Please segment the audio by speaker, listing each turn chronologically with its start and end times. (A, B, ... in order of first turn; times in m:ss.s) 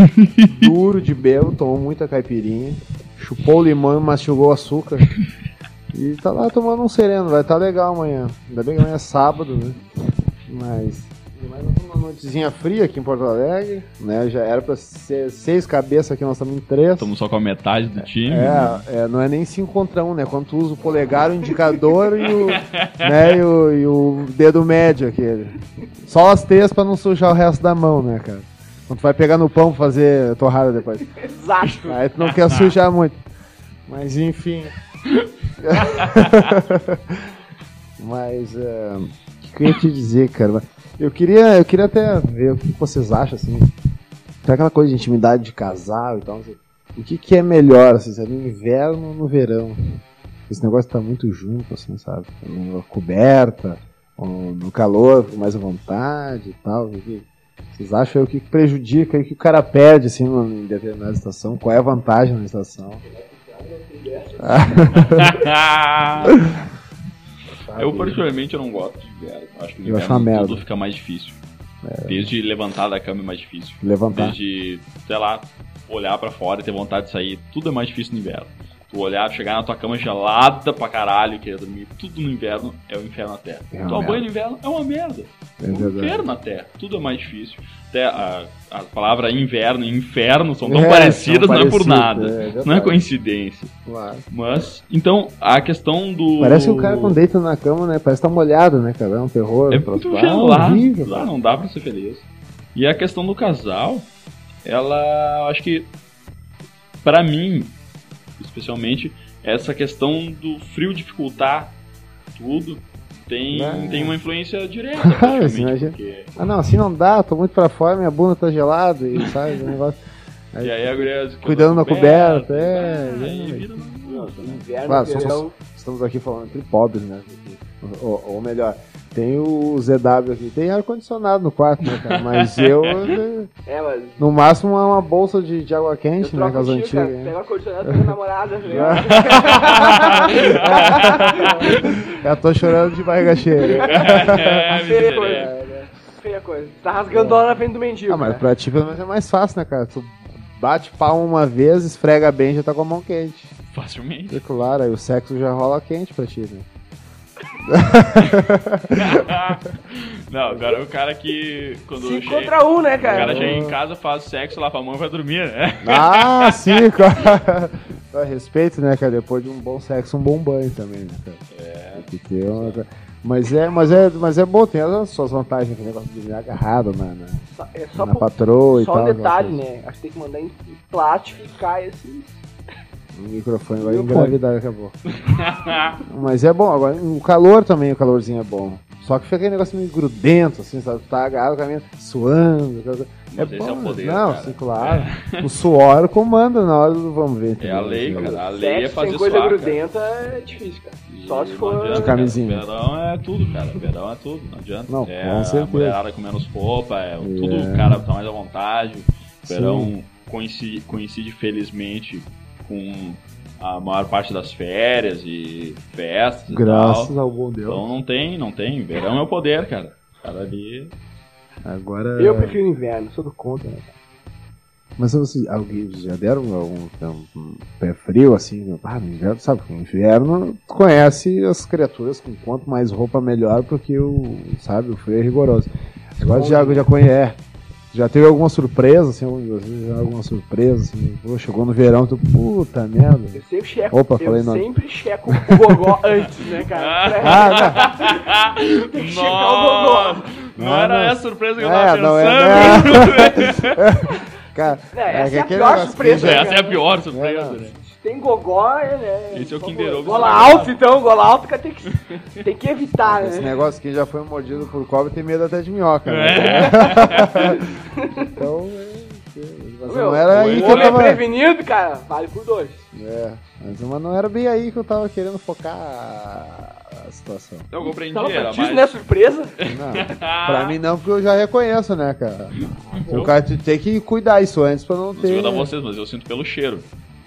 0:00.4-0:05.1 A
0:05.9-0:09.8 A
0:10.5-0:17.1 A
0:17.0-0:18.8 B
0:18.2-0:31.2 A
0:22.3-0:23.1 B
0:31.2-0:32.0 C
0:31.8-0:33.2 A
0:32.2-0:32.7 B
0:33.9-0:34.7 A
0:35.6-0:37.2 A
0:38.0-0:43.7 A
0:44.4-0:49.8 A
0:50.5-1:03.0 A
1:03.0-1:05.3 C
1:04.4-1:05.4 A
1:05.2-1:06.4 B
1:07.6-1:08.2 A
1:07.8-1:11.4 B
1:09.8-1:10.6 A
1:11.8-1:12.3 A
1:12.0-1:33.7 B
1:13.8-1:14.4 A
1:23.7-1:24.2 A
1:25.6-1:26.3 A
1:30.6-1:33.0 A
1:33.9-1:34.3 A
1:34.3-1:37.2 B
1:36.4-1:41.3 A
1:39.7-1:44.1 B
1:44.6-1:45.9 B
1:47.0-1:47.7 B
1:48.4-1:51.7 B
1:52.4-1:56.3 B
1:53.5-1:54.2 A
1:55.0-2:00.0 A
1:59.2-1:59.7 B
2:00.5-2:03.7 A
2:00.6-2:04.7 B
2:04.0-2:05.5 C
2:04.8-2:13.5 A
2:12.0-2:12.6 B
2:13.6-2:14.2 C
2:14.2-2:17.3 A
2:16.2-2:22.1 C
2:18.7-2:25.9 A
2:18.7-2:19.2 B
2:19.8-2:21.5 B
2:23.4-2:25.5 C
2:23.6-2:25.5 B
2:26.2-2:28.4 C
2:27.1-2:33.5 A
2:33.7-2:34.4 B
2:34.3-2:36.6 A
2:37.7-2:39.2 A
2:39.0-2:46.8 B
2:42.0-2:43.6 C
2:43.0-2:43.8 A
2:45.8-2:51.4 A
2:51.5-2:52.8 B
2:51.9-2:57.4 A
2:57.5-3:02.4 C
2:57.9-2:59.6 A
3:03.1-3:04.9 A
3:03.8-3:04.4 C
3:05.2-3:06.0 B
3:06.0-3:18.4 A
3:13.3-3:15.5 B
3:17.6-3:19.8 B
3:18.5-3:22.1 C
3:21.1-3:37.1 B
3:21.9-3:22.6 A
3:24.9-3:26.0 A
3:27.2-3:28.0 A
3:29.4-3:29.9 A
3:36.5-3:37.9 A
3:37.6-3:40.9 B
3:41.6-3:42.6 A
3:42.2-3:43.9 C
3:45.0-3:57.4 A
3:56.2-3:56.9 C
3:57.9-4:04.6 A
4:03.4-4:08.2 C
4:06.8-4:13.9 B
4:07.2-4:07.8 A
4:08.9-4:10.3 C
4:10.6-4:16.5 A
4:14.9-4:16.8 C
4:16.1-4:17.7 B
4:17.1-4:17.6 A
4:17.8-4:23.5 C
4:19.3-4:20.8 B
4:23.0-4:27.7 A
4:26.0-4:27.6 B
4:27.0-4:28.0 C
4:28.2-4:31.2 A
4:29.8-4:32.8 C
4:30.3-4:31.1 B
4:32.9-4:37.7 A
4:37.7-4:38.9 B
4:38.1-4:39.5 C
4:39.6-4:40.7 B
4:39.6-4:45.7 A
4:43.0-4:43.2 C
4:43.0-4:43.3 B
4:45.2-4:46.9 B